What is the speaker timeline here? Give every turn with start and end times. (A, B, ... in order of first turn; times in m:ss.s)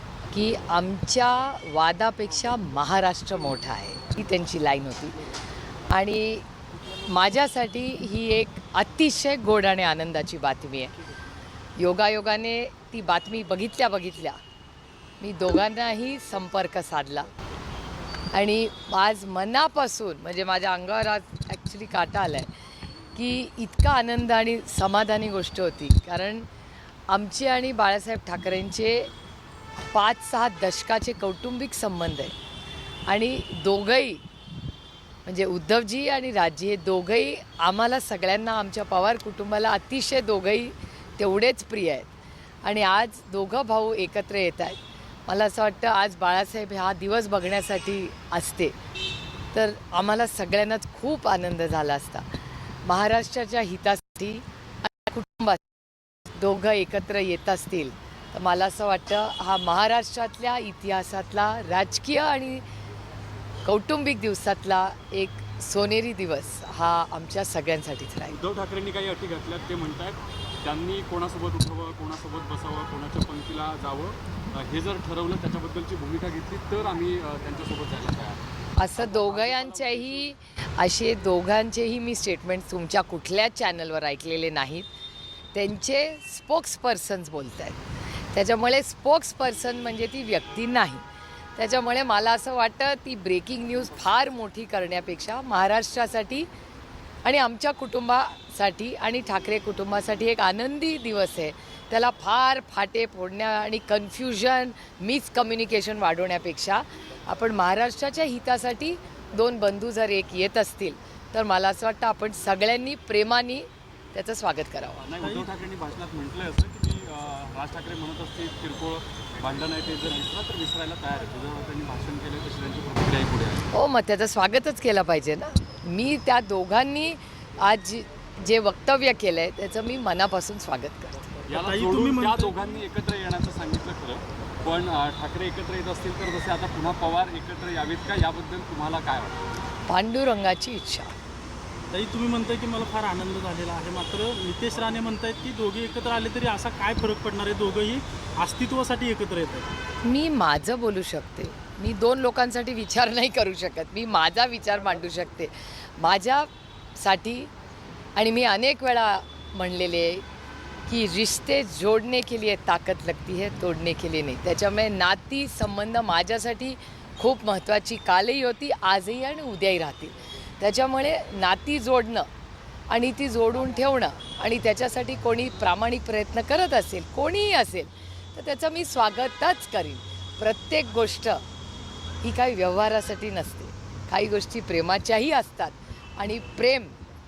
0:00.3-0:05.2 A
0:05.9-0:06.5 A
0:07.0-0:10.9 A
0:11.8-0:14.4 A
0:15.2-0:17.3 A
0:18.3-0:22.5 A
0:23.1-0:26.5 A
0:27.1-0:29.1 A
0:29.8-0:32.4 A
0:33.1-0:34.2 A
0:35.2-0:42.1 A
0:42.6-0:48.8 A
0:49.5-0:52.3 A
0:52.8-0:55.6 A
0:56.4-1:02.6 A
1:03.6-1:08.4 A
1:08.3-1:18.4 B
1:18.8-1:24.9 A
1:18.9-1:20.3 B
1:25.5-1:31.0 A
1:31.6-1:36.5 A
1:37.2-1:55.0 A
1:55.0-2:03.7 B
1:55.2-1:55.5 C
2:03.7-2:11.3 A
2:11.5-2:19.4 B
2:11.6-2:12.8 C
2:19.9-2:21.1 A
2:21.9-2:29.7 C
2:30.0-2:37.5 A
2:38.2-2:40.2 A
2:40.9-2:52.3 A
2:52.9-3:01.4 A
3:02.2-3:06.9 A